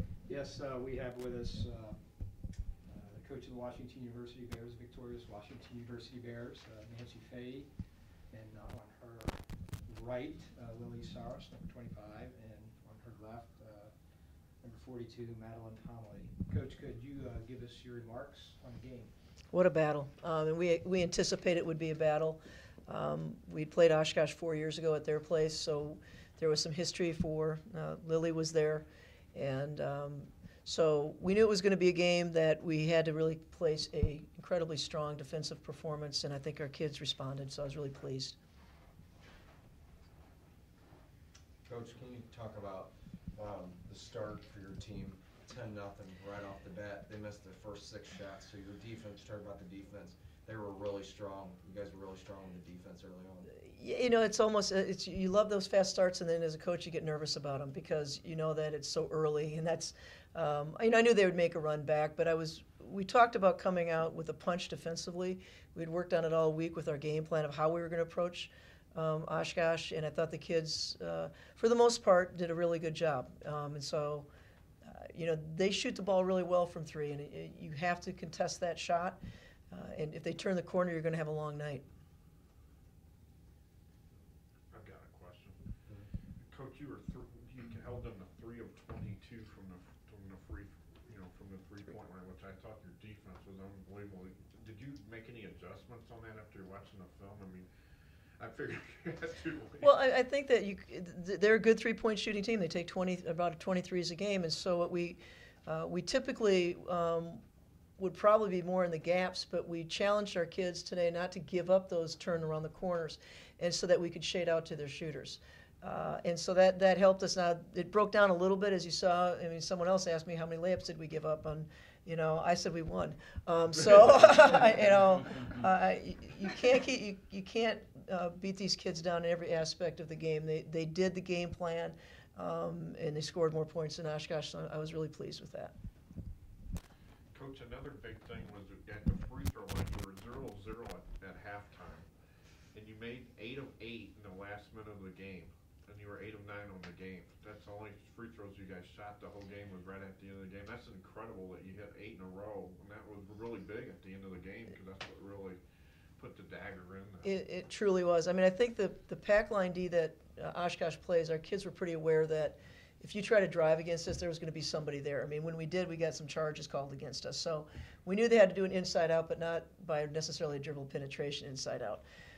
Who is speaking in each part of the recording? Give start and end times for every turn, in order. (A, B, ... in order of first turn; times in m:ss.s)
0:00.2-0:02.2 A
0:02.8-0:07.7 A
0:08.3-0:13.9 A
0:14.6-0:19.1 A
0:19.5-0:38.4 B
0:41.7-0:53.5 C
0:53.5-1:14.3 B
1:14.9-1:19.2 B
1:19.7-1:21.8 B
1:24.7-1:25.6 D
1:26.5-1:37.7 D
1:38.4-1:39.9 D
1:39.8-1:47.4 B
1:48.0-2:15.7 B
2:17.3-2:22.1 D
2:22.7-2:35.6 D
2:36.2-2:37.3 D
2:37.2-2:52.0 B